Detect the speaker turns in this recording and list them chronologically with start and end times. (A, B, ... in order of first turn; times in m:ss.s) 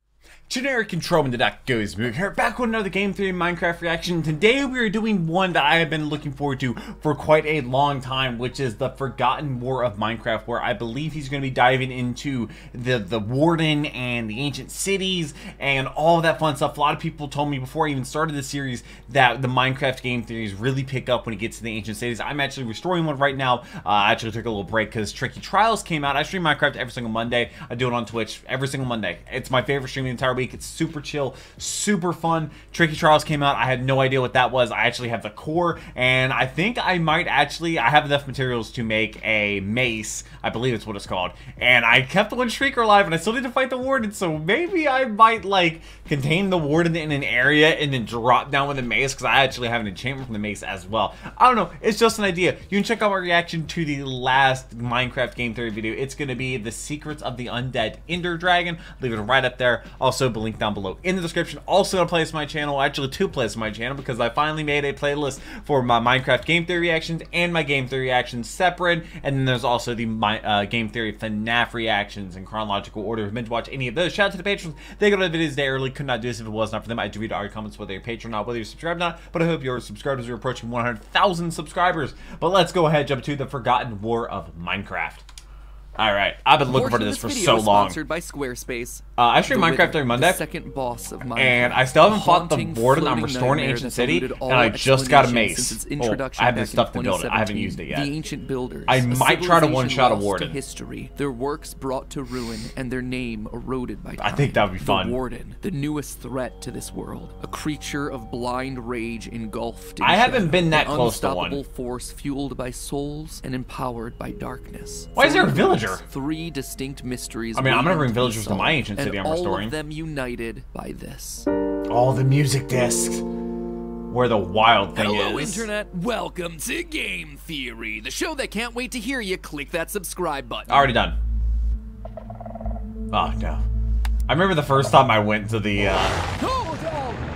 0:00.5-1:25.2 A
1:26.0-1:28.0 A
1:26.7-2:01.5 B
1:29.2-1:30.4 A
1:31.4-1:38.2 A
1:38.9-1:40.6 A
1:44.2-1:45.2 A
1:50.0-1:51.6 A
1:55.1-1:56.0 A
1:57.5-1:59.7 A
2:01.9-2:03.2 A
2:04.1-2:05.7 A
2:04.9-2:10.9 B
2:10.7-2:11.2 A
2:13.1-2:13.6 A
2:14.3-2:16.2 A
2:16.3-2:17.2 B